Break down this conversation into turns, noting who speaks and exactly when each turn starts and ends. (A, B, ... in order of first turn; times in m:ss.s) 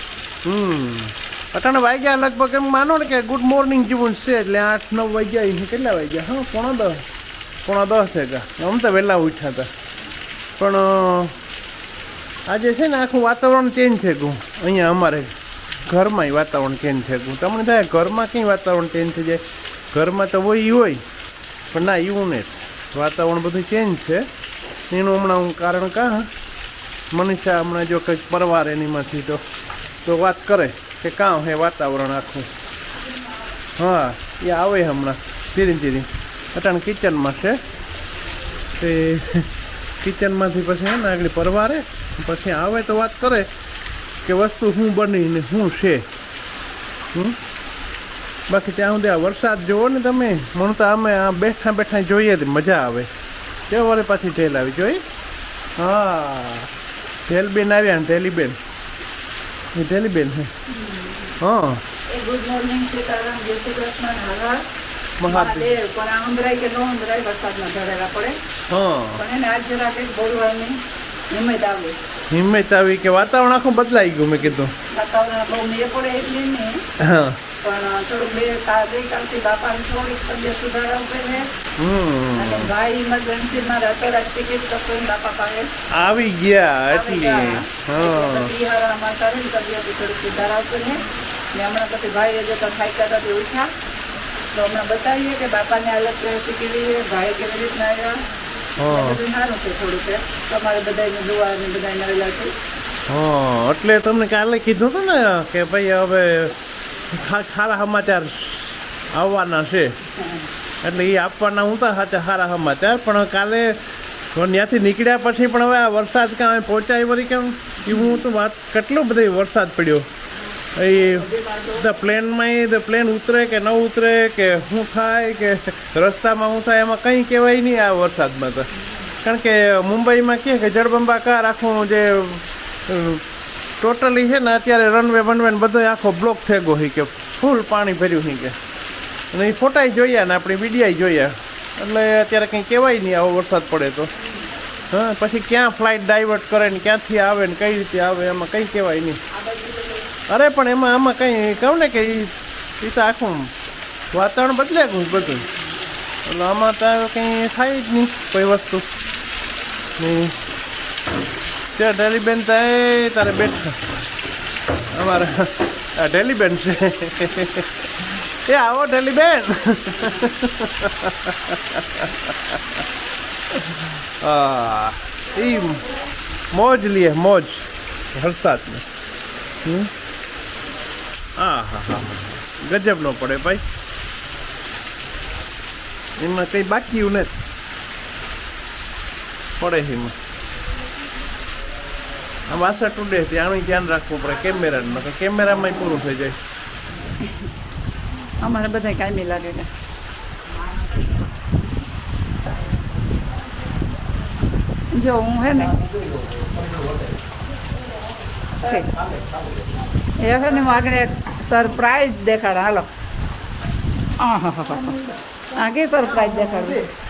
0:00.4-0:07.0 A
0:07.6-0:09.7 A
0:10.6-0:11.4 A
0:12.5-0:15.4 A
0:15.9-0:21.0 A
0:21.7-0:24.3 A
0:24.9-0:26.3 A
0:27.1-0:29.4 A
0:30.0-0:32.5 A
0:33.8-0:37.6 A
0:38.8-0:39.5 A
0:40.0-0:43.5 A
0:44.2-0:46.1 A
0:48.5-0:53.1 A
0:53.7-0:55.0 A
0:55.8-0:56.7 A
0:57.3-0:58.6 A
0:59.7-1:00.5 A
1:00.8-1:01.3 B
1:01.4-1:01.8 A
1:02.1-1:04.6 B
1:05.2-1:05.7 A
1:05.2-1:08.4 B
1:08.7-1:09.2 A
1:09.2-1:10.8 B
1:11.3-1:12.0 B
1:12.3-1:14.7 A
1:14.9-1:16.8 B
1:17.0-1:17.4 A
1:17.6-1:21.5 B
1:21.8-1:22.7 A
1:22.3-1:25.7 B
1:25.9-1:28.5 A
1:26.9-1:31.0 B
1:31.5-1:33.7 B
1:34.5-1:38.2 B
1:38.8-1:39.2 A
1:38.8-1:42.5 B
1:43.1-1:46.6 A
1:47.1-1:50.0 A
1:50.8-1:53.8 A
1:54.3-2:00.1 A
2:00.8-2:08.7 A
2:01.1-2:01.9 B
2:09.2-2:13.2 A
2:13.8-2:18.6 A
2:19.3-2:24.1 A
2:24.9-2:29.2 A
2:29.3-2:30.1 B
2:30.3-2:33.5 A
2:34.1-2:35.5 A
2:36.3-2:38.9 A
2:40.0-2:40.4 A
2:41.7-2:43.8 A
2:44.9-2:52.6 A
2:53.5-2:55.9 A
2:56.5-2:58.9 A
2:59.6-2:59.9 A
3:01.4-3:03.7 A
3:06.2-3:07.4 A
3:09.6-3:10.2 A
3:12.5-3:16.4 A
3:17.2-3:17.5 B
3:18.4-3:19.7 B
3:24.9-3:26.0 B
3:28.6-3:29.0 B
3:30.2-3:32.9 B
3:34.2-3:36.9 B
3:36.2-3:36.8 A